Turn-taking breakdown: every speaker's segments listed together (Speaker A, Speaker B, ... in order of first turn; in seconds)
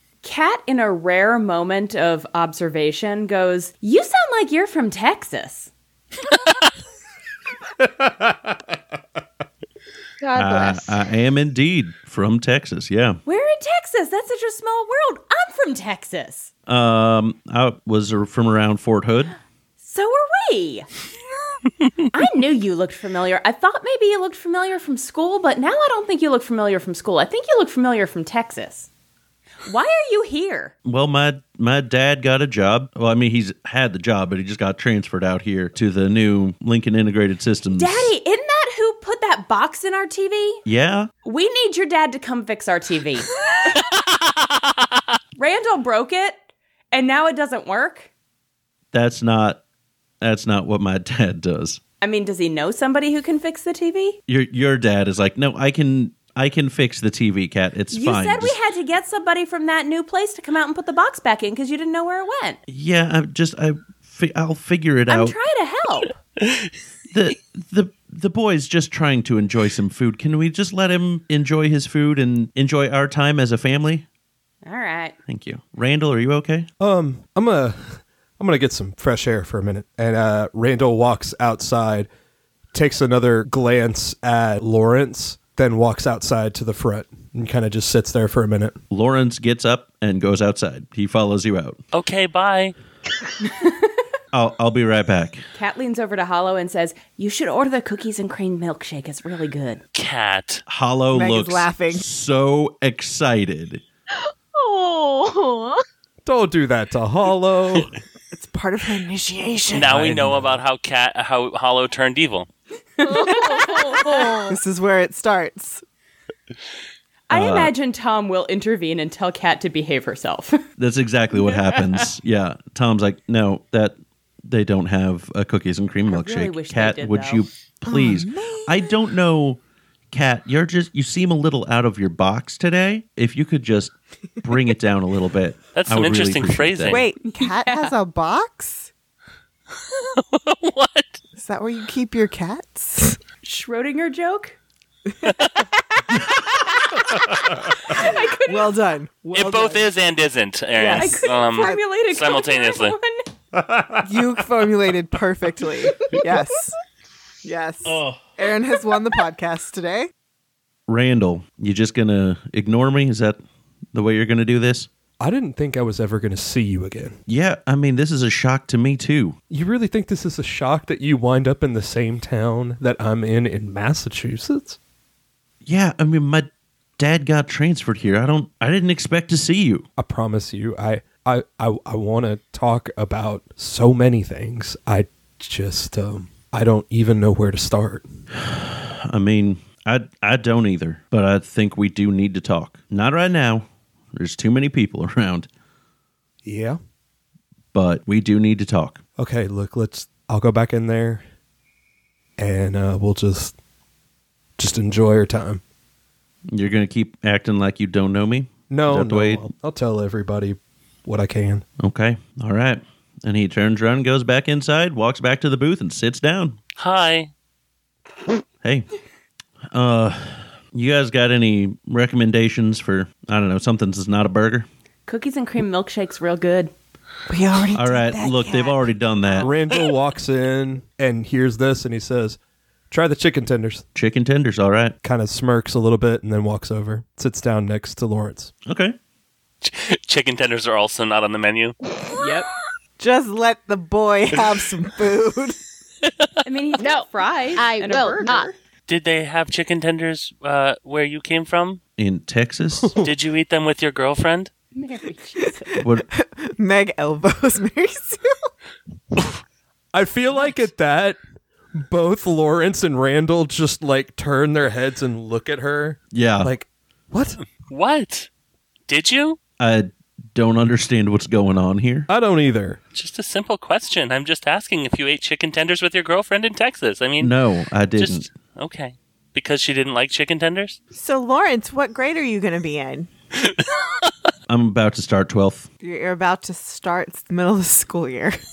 Speaker A: 0.2-5.7, 13.2-16.5, 19.8-20.9, 22.1-28.9, 29.6-30.7, 37.7-40.6, 41.2-43.3, 45.4-46.4, 46.9-48.1, 52.0-54.2, 57.9-62.6, 65.1-66.1, 74.6-75.1, 95.5-99.8, 113.0-114.0, 117.3-120.6, 121.4-121.8, 126.1-127.4, 137.2-137.9, 143.4-144.6, 147.3-148.8, 150.9-153.3, 225.1-226.7, 242.2-242.5, 246.4-248.6, 254.7-255.7
Speaker B: 8.0-8.3, 76.8-82.1, 82.7-88.8, 106.2-107.9, 153.7-154.0, 165.2-167.2, 169.5-174.8, 180.0-188.1, 196.4-196.8, 199.2-201.2, 202.4-203.5, 204.6-205.6, 208.7-211.6, 229.4-232.4, 232.9-233.8, 235.0-238.5, 252.8-253.1, 259.9-261.2, 261.8-267.4, 272.1-272.8
Speaker C: 10.2-11.0, 104.2-105.8, 113.0-114.6, 246.8-248.5
Speaker D: 10.3-13.2, 16.7-19.4, 30.9-38.1, 40.6-41.1, 48.9-49.6, 50.2-51.8, 54.3-58.5, 62.7-65.4, 67.1-74.0, 75.3-76.7, 88.9-91.8, 94.3-95.4, 100.7-103.8, 117.3-117.7, 120.8-129.6, 130.1-137.0, 157.8-158.3, 160.9-163.4, 163.9-164.9, 167.3-169.4, 175.7-179.9, 188.3-195.5, 197.7-199.0, 206.5-209.4, 211.8-216.6, 219.7-224.7, 227.7-229.5, 233.9-235.0, 238.7-239.0, 252.0-253.0, 255.8-256.1, 266.1-266.5, 269.6-272.1, 277.2-278.3, 284.5-285.7
Speaker E: 91.9-92.8, 99.9-100.6, 109.7-112.5, 135.8-137.0, 140.1-141.2, 149.3-153.0, 216.8-217.3, 239.6-241.8, 248.9-251.8, 253.0-254.5, 267.7-268.3, 268.9-269.4, 272.9-277.3, 278.0-280.8
Speaker F: 101.1-102.1, 108.3-110.0, 114.5-115.8, 127.9-128.9, 136.9-138.9, 141.4-143.2, 147.8-149.9, 150.8-151.8, 154.0-156.8, 157.4-160.1, 227.3-229.0, 243.0-245.6, 255.7-258.5, 280.9-283.1, 285.8-288.4